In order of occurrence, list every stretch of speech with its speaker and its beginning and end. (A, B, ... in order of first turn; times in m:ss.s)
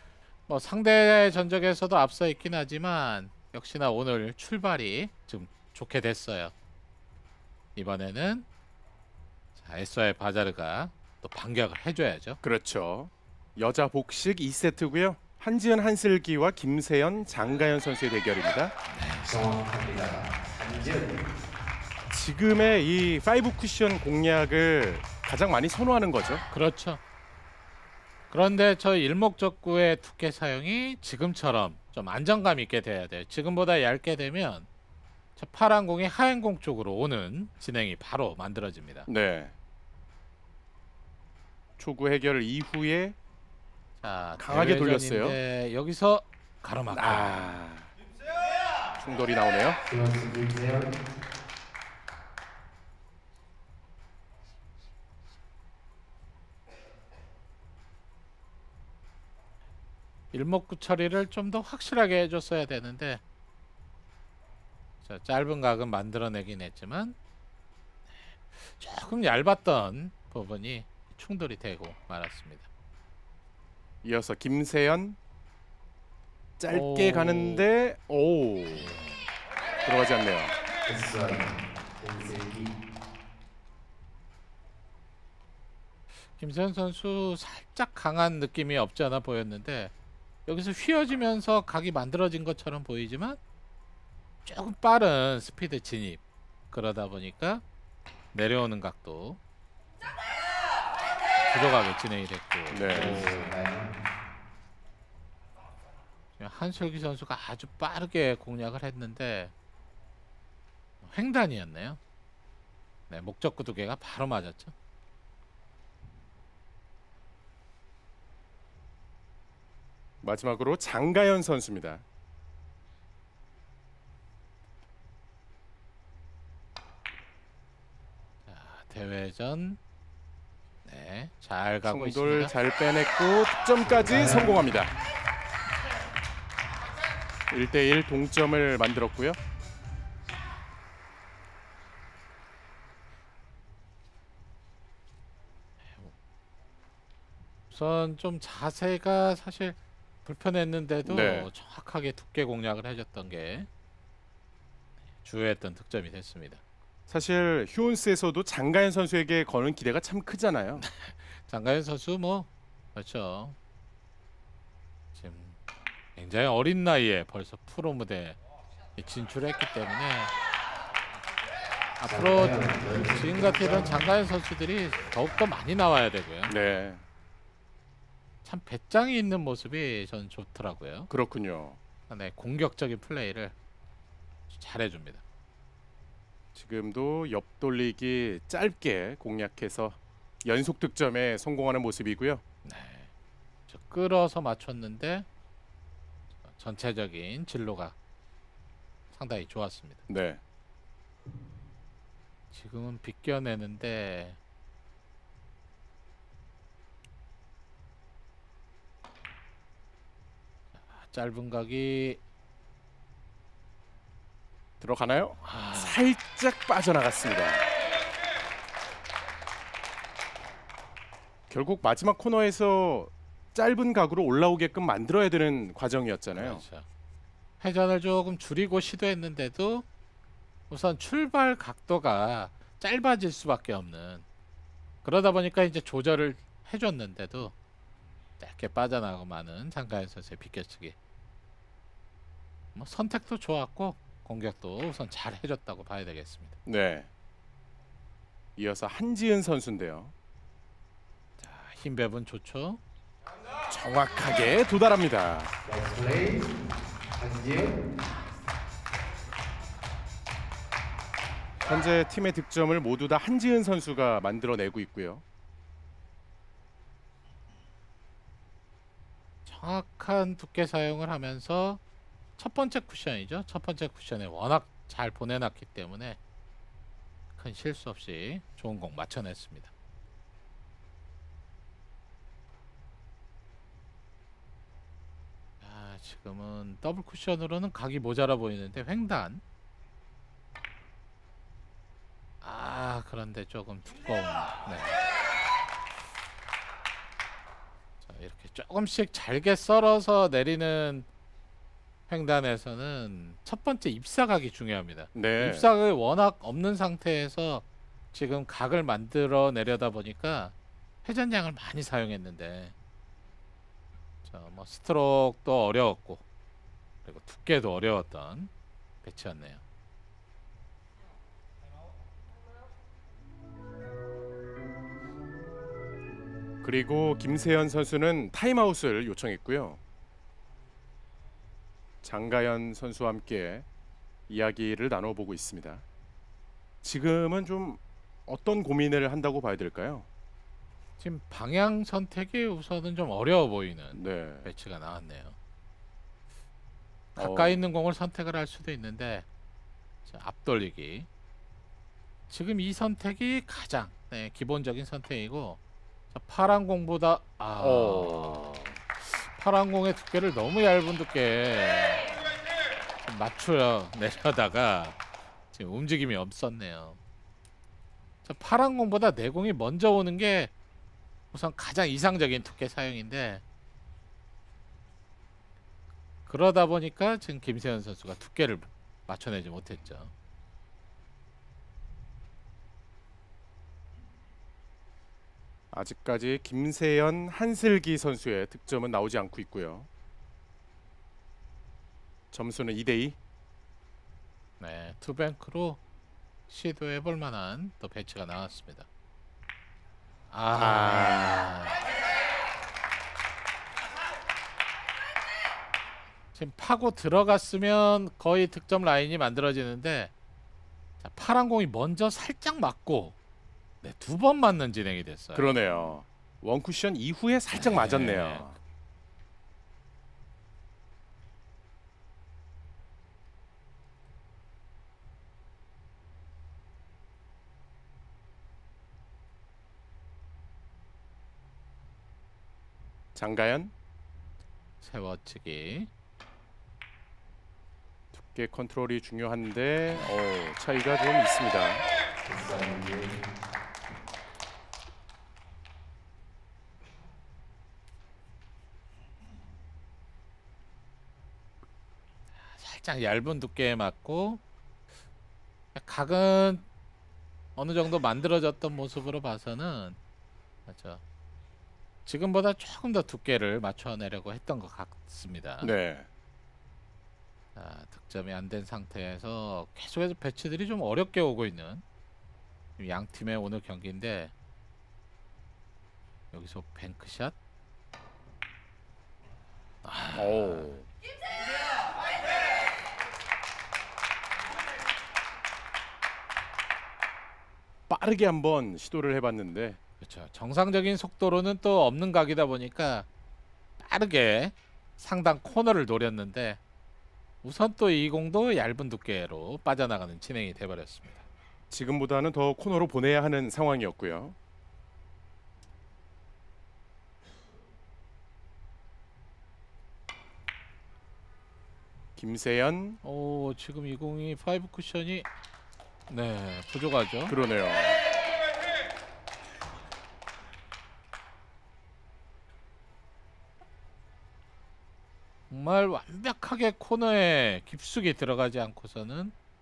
0:00.5-0:06.5 A
0:07.8-0:08.5 A
0:09.6-0:12.4 A
0:12.4-0:18.8 B
0:18.9-0:19.4 A
0:19.2-0:21.2 C
0:22.1-0:26.4 B
0:26.5-0:27.0 A
0:28.3-0:34.7 A
0:35.4-0:39.1 A
0:39.1-0:39.5 B
0:41.8-0:43.2 B
0:44.0-0:47.5 A
0:44.4-0:45.4 B
0:46.9-0:47.9 B
0:49.0-0:49.8 B
0:49.9-0:51.0 C
1:00.3-1:03.2 A
1:05.0-1:07.2 A
1:08.5-1:12.7 A
1:14.0-1:15.2 B
1:16.6-1:19.0 B
1:16.7-1:17.7 A
1:18.7-1:19.3 A
1:19.8-1:20.6 B
1:20.8-1:22.7 C
1:26.3-1:29.9 A
1:30.5-1:33.4 A
1:34.5-1:37.6 A
1:38.3-1:39.4 A
1:41.4-1:43.6 A
1:42.7-1:43.2 B
1:42.9-1:43.9 C
1:46.4-1:49.5 A
1:51.0-1:52.0 A
1:53.1-1:54.7 A
2:00.2-2:02.0 B
2:08.5-2:09.8 A
2:10.8-2:12.5 A
2:11.8-2:14.9 B
2:14.0-2:14.6 C
2:17.5-2:19.4 B
2:27.7-2:33.7 A
2:31.0-2:31.5 B
2:35.2-2:36.6 A
2:37.1-2:40.9 B
2:40.8-2:43.6 A
2:45.1-2:45.6 A
2:46.2-2:48.4 A
2:49.0-2:50.3 A
2:52.0-2:56.6 A
2:52.1-2:53.9 C
2:56.5-2:57.0 B
2:58.4-3:01.1 A
3:01.1-3:01.8 B
3:02.1-3:03.6 A
3:04.5-3:05.2 A
3:06.6-3:12.4 B
3:12.6-3:13.1 A
3:13.7-3:15.3 A
3:16.4-3:18.0 A
3:19.1-3:20.0 A
3:20.1-3:20.4 B
3:22.5-3:24.4 A
3:30.8-3:32.2 A
3:34.8-3:37.7 B
3:35.4-3:36.1 A
3:41.5-3:46.6 B
3:46.3-3:46.9 A
3:47.6-3:49.9 A
3:50.7-3:54.2 A
3:55.0-3:57.5 A
3:58.4-4:01.0 A
4:02.8-4:06.6 A
4:06.7-4:07.1 B
4:08.6-4:10.1 B
4:11.4-4:12.8 A
4:13.7-4:15.5 B
4:15.6-4:16.5 C
4:17.2-4:17.8 C
4:21.6-4:25.2 B
4:29.5-4:31.8 A
4:32.4-4:36.2 A
4:37.4-4:39.7 A
4:45.6-4:49.4 A
4:52.4-4:55.0 A
4:58.0-5:01.1 A
5:02.1-5:12.7 A
5:05.1-5:05.7 B
5:14.2-5:16.2 A
5:17.0-5:18.5 A
5:19.0-5:19.6 A
5:26.6-5:29.8 B
5:32.0-5:33.7 B
5:34.3-5:35.8 B
5:36.8-5:40.1 B
5:41.0-5:45.4 A
5:43.9-5:44.5 B
5:47.2-5:49.3 A
5:47.2-5:47.6 B
5:50.1-5:51.1 A
5:52.3-5:55.6 A
5:56.1-6:02.2 A
5:57.6-5:58.4 B
6:03.0-6:05.0 A
6:05.5-6:07.0 A
6:08.2-6:10.5 A
6:11.3-6:13.4 A
6:16.3-6:20.1 A
6:25.7-6:29.9 B
6:32.3-6:33.2 B
6:34.6-6:35.8 A
6:36.5-6:38.9 A
6:40.3-6:41.8 A
6:40.5-6:41.4 B
6:46.3-6:50.1 A
6:51.0-6:53.2 A
6:53.8-6:55.9 A
6:55.3-6:58.6 B
6:57.5-6:58.5 A
7:13.2-7:13.7 B
7:14.8-7:15.9 A
7:18.1-7:21.8 B
7:22.2-7:23.2 C
7:32.4-7:34.4 A
7:35.8-7:36.7 A
7:37.6-7:40.0 A
7:40.7-7:41.0 A
7:42.1-7:45.7 A
7:45.6-7:46.1 B
7:47.6-7:51.8 A
7:52.8-7:54.3 A
7:56.3-7:57.4 A
7:59.8-8:00.8 A
8:00.1-8:00.8 B
8:07.9-8:09.8 B
8:10.0-8:13.1 A
8:13.8-8:16.6 A
8:17.4-8:21.2 A
8:21.7-8:24.4 B
8:32.2-8:33.0 B
8:33.0-8:35.3 A
8:36.1-8:37.4 A
8:37.3-8:38.0 B
8:45.5-8:49.3 A